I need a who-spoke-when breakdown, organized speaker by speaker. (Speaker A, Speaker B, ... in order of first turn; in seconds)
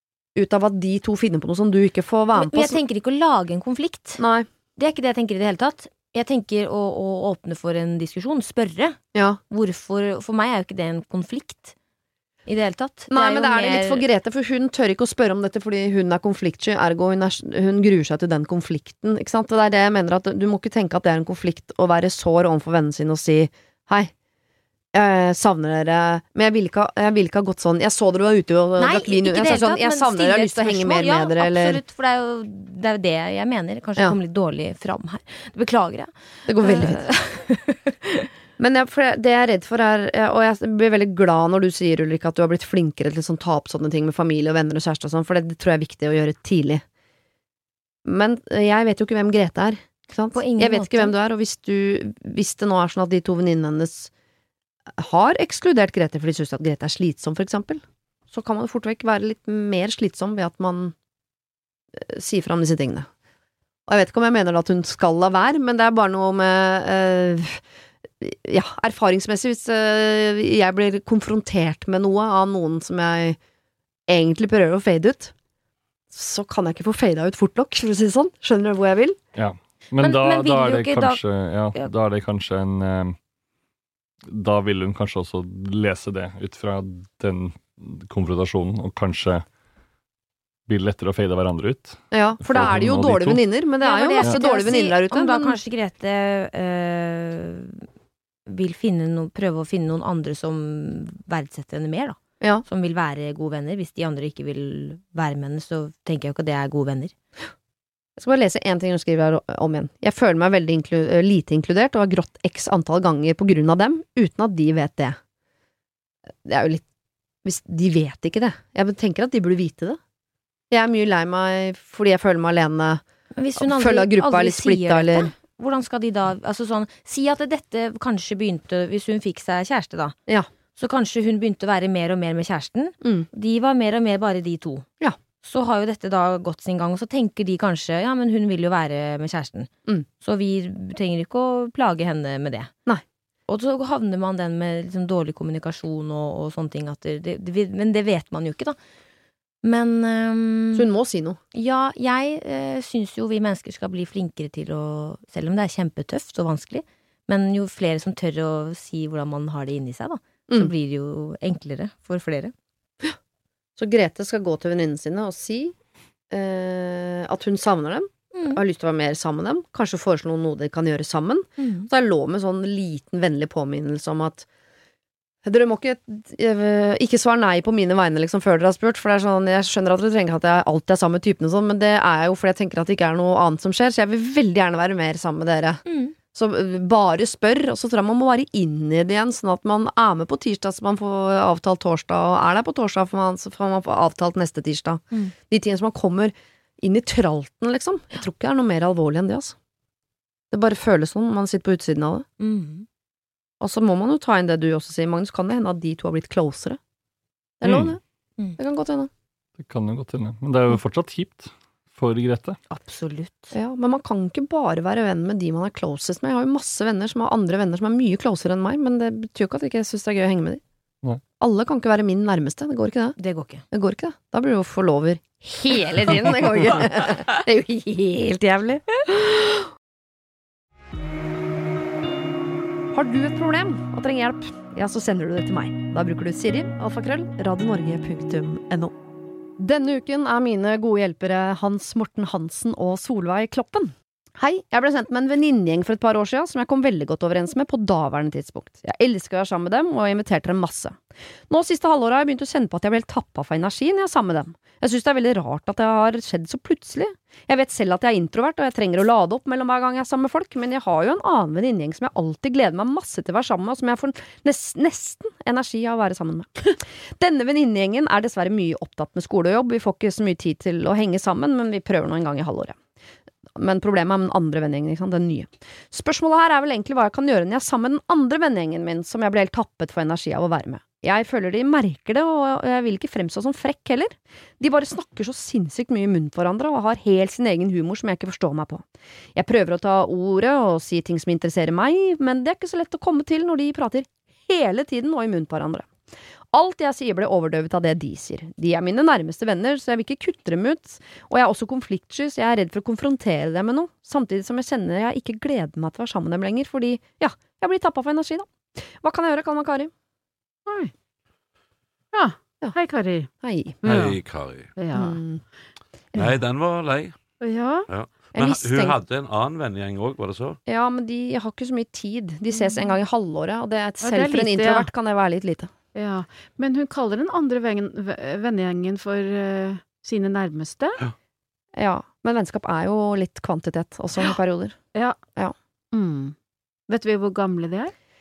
Speaker A: 0.3-2.8, 4.2-4.5, 9.1-9.4, 13.1-24.1, 24.9-31.8, 36.5-37.6, 38.6-46.8, 48.0-54.1, 55.0-60.9, 61.9-63.1, 63.9-67.6, 68.2-73.4, 74.1-75.3, 76.1-79.2, 92.1-95.5, 108.2-115.2, 116.4-116.8, 117.4-120.0, 120.7-123.0, 123.6-125.3, 133.0-133.3, 150.7-151.4, 163.8-165.7, 166.3-174.4, 175.4-199.5, 200.5-202.2, 203.6-206.8, 207.6-208.0, 208.6-209.1, 213.5-220.6, 221.4-223.2, 223.7-229.6, 232.9-238.9, 239.6-272.8, 273.6-288.8, 289.3-295.9, 296.5-309.9, 313.4-313.9, 314.9-315.4, 318.3-318.9, 320.7-325.7, 331.7-334.8
Speaker B: 2.3-4.2, 4.8-9.0, 9.5-11.7, 12.5-14.1, 28.8-37.1, 50.3-51.1, 80.0-81.2, 93.8-97.9, 98.5-107.1, 123.3-130.2, 130.7-134.8, 135.4-142.7, 143.5-148.8, 149.6-150.8, 151.5-162.5, 168.3-168.6, 171.6-171.9, 185.8-186.1, 202.4-202.8, 212.7-213.5, 223.2-223.6
Speaker C: 79.3-83.2, 84.3-89.4, 90.7-93.4, 207.6-207.9, 209.6-212.6
Speaker D: 310.7-310.9, 312.1-313.3, 313.8-314.2, 314.7-315.2, 317.4-317.9, 322.6-322.9, 324.0-324.9, 325.9-331.0, 335.9-336.3, 336.9-337.9
Speaker E: 313.8-314.7, 316.1-317.1, 317.9-320.6